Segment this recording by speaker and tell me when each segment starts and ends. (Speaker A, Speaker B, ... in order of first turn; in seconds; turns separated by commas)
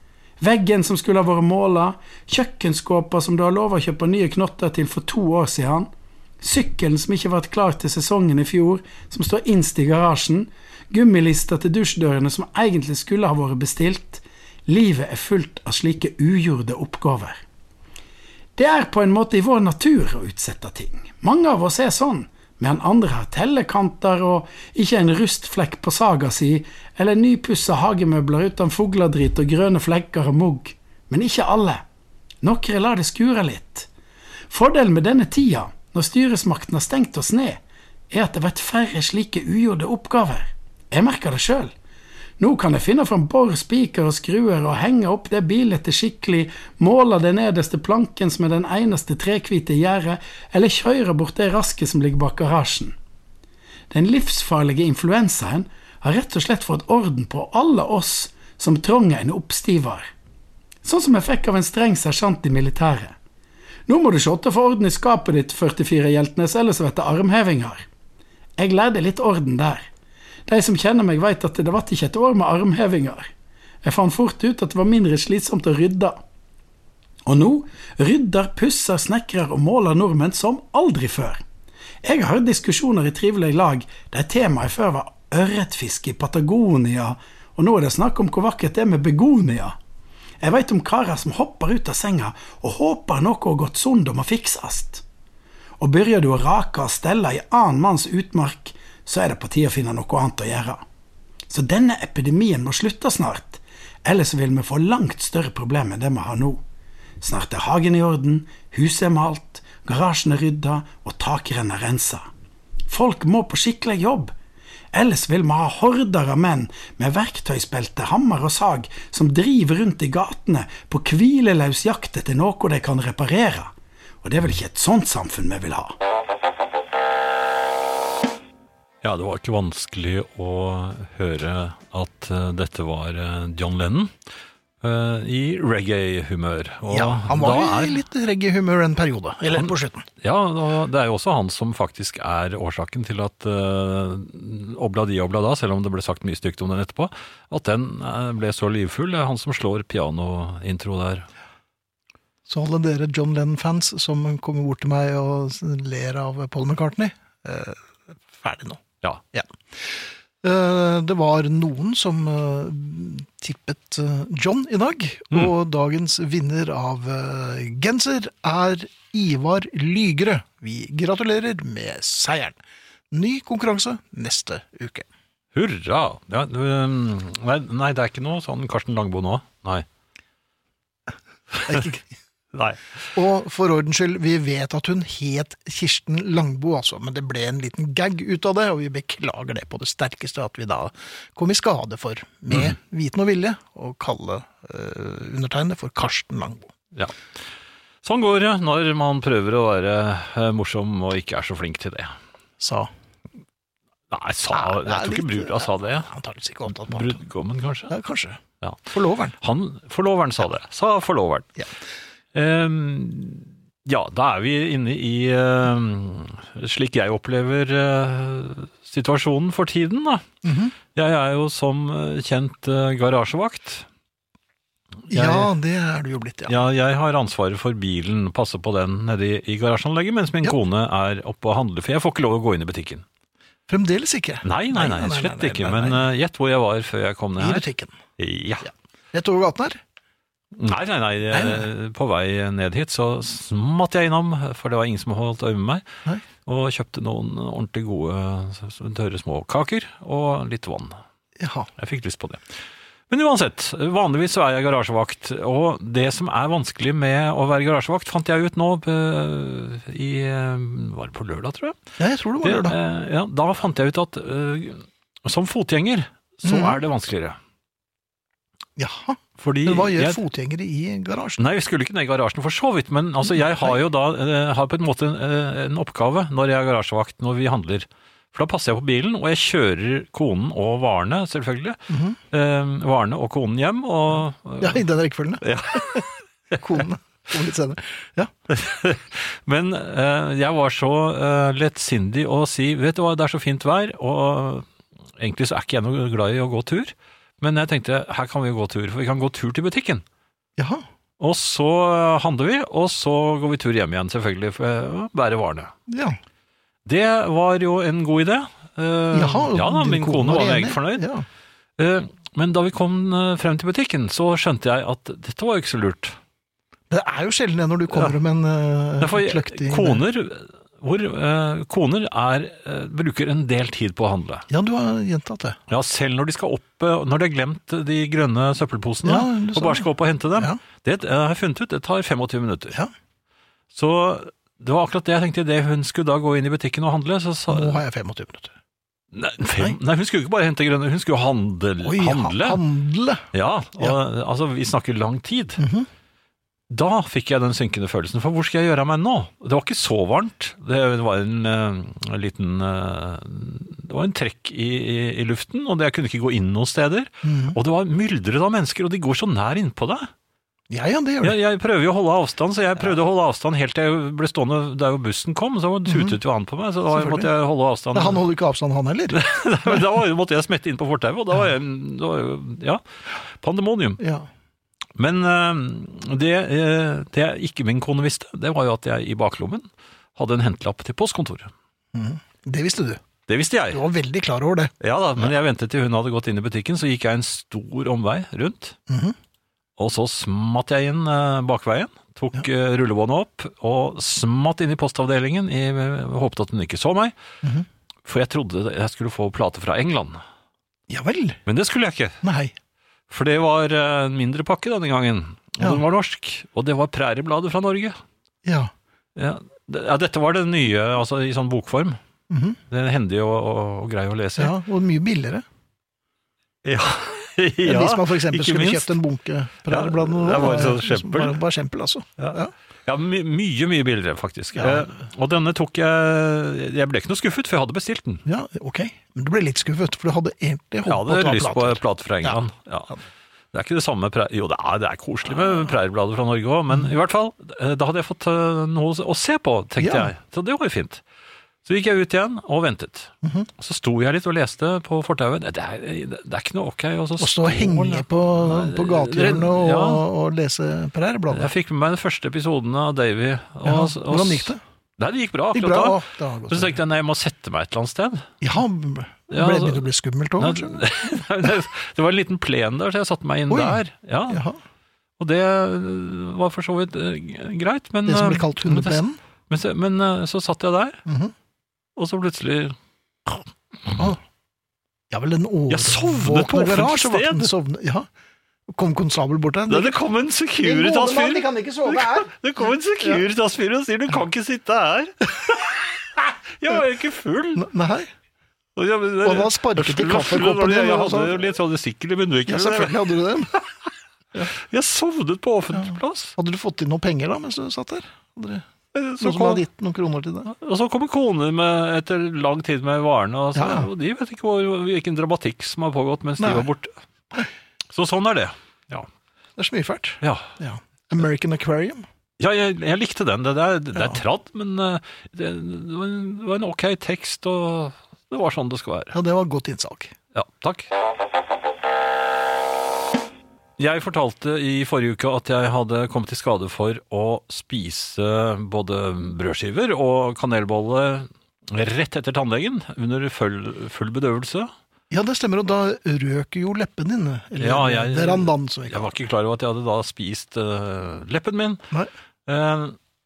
Speaker A: 0.4-5.9, Speaker A: 6.4-17.4, Speaker A: 18.6-31.8, Speaker A: 32.4-33.9, Speaker A: 34.5-41.7, Speaker A: 42.4-52.9, Speaker A: 53.9-60.1, Speaker A: 60.8-63.1, Speaker A: 63.9-67.8, Speaker A: 68.6-69.9, Speaker A: 70.5-73.3, Speaker A: 73.8-76.2, Speaker A: 77.2-81.4, Speaker A: 82.0-89.7, Speaker A: 90.4-95.0, Speaker A: 95.8-100.8, Speaker A: 101.5-106.6, Speaker A: 107.2-112.2, Speaker A: 112.9-114.3, Speaker A: 114.9-123.7, Speaker A: 124.2-125.9, Speaker B: 129.0-134.1, Speaker B: 134.8-138.0, Speaker C: 136.9-140.1, Speaker B: 139.5-151.3, Speaker C: 152.5-158.8, Speaker C: 159.3-172.6, Speaker C: 173.1-175.0, Speaker B: 175.5-179.8, Speaker C: 181.7-182.0, Speaker B: 182.5-182.8, Speaker C: 183.1-196.7, Speaker B: 198.0-202.1, Speaker C: 202.6-202.9, Speaker B: 204.1-206.1, Speaker C: 204.5-207.2, Speaker B: 206.7-207.9, Speaker C: 207.9-209.3, Speaker B: 209.4-211.6, Speaker B: 212.3-220.2, Speaker C: 220.4-220.7, Speaker B: 220.9-223.9, Speaker B: 225.1-225.5, Speaker C: 225.1-226.6, Speaker B: 226.5-233.0, Speaker C: 233.7-236.1, Speaker B: 234.4-237.7, Speaker C: 237.4-237.9, Speaker B: 238.2-238.7, Speaker C: 238.6-239.8, Speaker B: 240.5-245.8, Speaker C: 241.3-241.7, Speaker B: 246.4-251.0, Speaker C: 251.4-251.7, Speaker B: 251.8-252.4, Speaker B: 253.1-261.8, Speaker C: 262.0-262.8, Speaker B: 262.4-267.4, Speaker C: 266.4-266.8, Speaker C: 268.8-271.4, Speaker B: 269.4-270.2, Speaker B: 271.4-284.8, Speaker C: 273.3-273.8, Speaker C: 281.9-282.2, Speaker C: 284.6-288.3, Speaker B: 285.4-286.1, Speaker B: 288.5-300.0, Speaker C: 300.6-300.8, Speaker B: 301.2-305.7, Speaker C: 305.9-306.2, Speaker B: 306.8-311.1, Speaker C: 309.1-311.2, Speaker B: 311.8-316.2, Speaker C: 316.9-320.0, Speaker B: 319.0-324.4, Speaker C: 324.5-325.6, Speaker B: 325.7-332.8, Speaker C: 329.0-330.6, Speaker B: 333.7-337.8, Speaker C: 337.5-338.5, Speaker B: 339.1-342.6, Speaker C: 341.8-343.3, Speaker B: 343.3-345.6, Speaker C: 345.6-345.9, Speaker B: 346.7-360.1, Speaker C: 357.2-357.6, Speaker C: 360.7-361.4, Speaker B: 361.2-368.2, Speaker C: 365.9-366.1, Speaker C: 366.9-367.3, Speaker C: 367.9-369.8, Speaker B: 369.1-372.8, Speaker B: 373.4-374.0, Speaker C: 374.0-374.3, Speaker B: 374.9-381.5, Speaker C: 381.9-383.0, Speaker B: 383.3-383.8, Speaker C: 383.7-384.7, Speaker B: 384.8-388.8, Speaker C: 388.9-389.1, Speaker B: 389.8-397.1, Speaker B: 398.0-400.2, Speaker C: 400.9-401.4, Speaker B: 401.4-402.2, Speaker C: 402.2-402.5, Speaker B: 403.1-408.0, Speaker C: 408.4-408.7, Speaker B: 409.1-412.0, Speaker C: 412.3-412.6, Speaker B: 412.7-414.5, Speaker C: 414.4-415.4, Speaker B: 416.6-419.0, Speaker C: 417.6-422.5, Speaker B: 419.7-421.4, Speaker B: 422.2-428.2, Speaker C: 424.6-424.9, Speaker C: 428.2-432.4, Speaker B: 430.9-432.9, Speaker B: 433.5-441.0, Speaker C: 439.8-440.1, Speaker B: 441.6-450.0, Speaker C: 443.2-443.5, Speaker C: 447.2-451.5, Speaker B: 451.3-458.3, Speaker C: 453.6-454.6, Speaker C: 455.5-456.8, Speaker C: 458.4-460.8, Speaker B: 459.3-459.9, Speaker B: 460.4-464.4, Speaker C: 463.5-464.6, Speaker B: 465.2-471.0, Speaker C: 468.1-469.2, Speaker C: 471.1-471.3, Speaker B: 471.9-473.9, Speaker C: 475.1-478.1, Speaker B: 475.7-477.5, Speaker C: 478.7-480.0, Speaker B: 479.7-487.7, Speaker C: 480.6-482.3, Speaker C: 487.6-488.1, Speaker B: 488.8-493.7, Speaker C: 489.2-491.4, Speaker C: 492.5-493.5, Speaker B: 494.4-496.3, Speaker C: 495.7-498.6, Speaker B: 498.9-499.6, Speaker C: 499.2-500.5, Speaker B: 500.4-506.9, Speaker C: 503.5-503.9, Speaker C: 506.4-506.7, Speaker B: 507.9-509.1, Speaker C: 509.6-512.0, Speaker B: 510.2-510.5, Speaker B: 512.4-519.1, Speaker C: 519.1-520.1, Speaker B: 520.3-520.9, Speaker B: 523.8-534.7, Speaker C: 535.1-539.1, Speaker B: 537.6-541.8, Speaker B: 542.5-543.0